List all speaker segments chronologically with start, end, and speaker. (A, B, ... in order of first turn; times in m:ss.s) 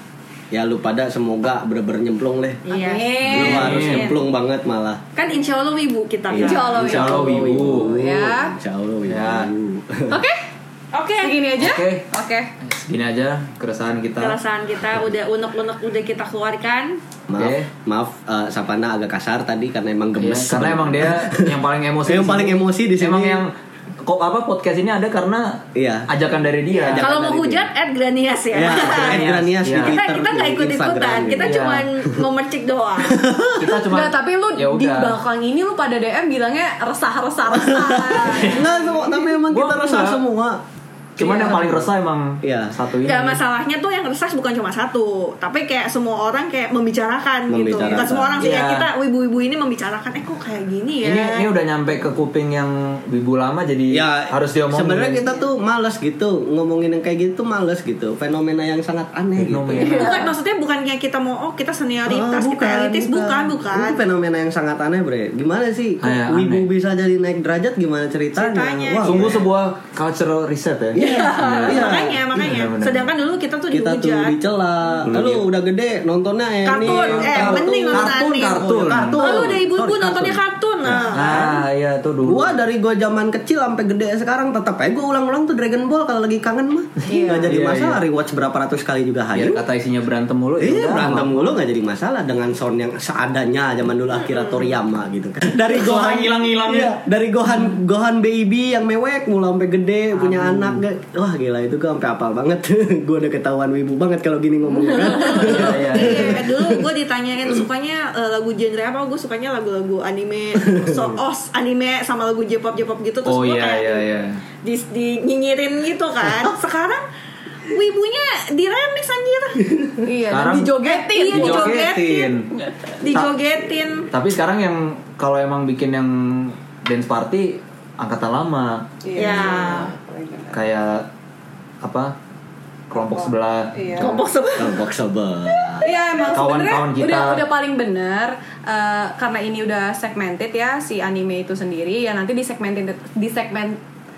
0:00.5-0:02.6 A
0:02.6-0:04.3 B
0:02.7-0:03.6 C
0:03.2-0:05.0 A
0:03.2-0:04.1 D
0:05.1-0:06.8 B
0:06.3-0:10.2 A
0:06.4-0:08.5 C
0:06.8-0:07.9 D
0:09.0-0:09.5 D
0:10.1-0:10.4 C
0:10.9-0:11.4 B
0:11.2-0:12.5 C
0:11.6-0:12.0 D
0:12.6-0:14.4 D
0:14.2-0:17.0 B
0:17.3-0:21.5 A
0:17.4-0:17.7 D
0:20.2-0:23.5 D
0:22.0-0:23.4 A
0:24.0-0:27.4 D
0:25.7-0:26.1 A
0:26.7-0:27.6 A
0:26.9-0:33.2 B
0:28.5-0:31.5 A
0:28.6-0:30.0 D
0:31.4-0:31.9 D
0:33.0-0:33.8 A
0:33.6-0:35.2 D
0:33.9-0:38.7 C
0:37.5-0:40.6 A
0:38.2-0:38.6 D
0:38.5-0:38.8 B
0:39.5-0:40.2 D
0:41.2-0:43.4 D
0:41.2-0:41.7 C
0:41.2-0:41.9 A
0:42.4-0:42.7 A
0:43.0-0:51.5 B
0:47.5-0:48.5 A
0:47.8-0:48.9 D
0:51.0-0:55.2 D
0:53.9-1:00.0 A
0:59.4-1:00.3 D
0:59.8-1:04.0 B
0:59.8-1:00.2 C
1:02.0-1:09.4 A
1:06.0-1:06.7 D
1:08.4-1:09.4 B
1:09.0-1:13.1 D
1:10.9-1:12.2 A
1:11.0-1:11.8 C
1:11.0-1:14.4 B
1:13.7-1:21.5 A
1:15.1-1:15.4 D
1:16.6-1:21.6 B
1:16.8-1:19.5 D
1:20.8-1:22.6 D
1:22.2-1:29.6 A
1:27.0-1:27.5 C
1:27.5-1:28.0 D
1:29.3-1:31.6 D
1:30.6-1:46.8 A
1:35.7-1:36.9 D
1:40.1-1:40.8 D
1:45.2-1:45.5 C
1:45.3-1:54.0 B
1:45.5-1:46.4 D
1:50.7-1:51.1 A
1:53.2-1:54.4 D
1:54.6-1:57.0 B
1:57.7-2:00.0 B
2:00.0-2:01.9 C
2:00.3-2:02.5 D
2:00.8-2:02.3 B
2:02.5-2:03.0 C
2:03.0-2:04.1 B
2:03.1-2:03.4 D
2:04.1-2:09.7 D
2:09.0-2:10.6 C
2:09.1-2:09.9 B
2:09.3-2:09.9 A
2:10.5-2:11.1 D
2:11.8-2:12.1 D
2:12.9-2:14.0 D
2:12.9-2:14.2 C
2:13.9-2:14.8 B
2:14.0-2:15.9 A
2:15.6-2:15.9 B
2:15.8-2:23.8 C
2:16.3-2:17.4 D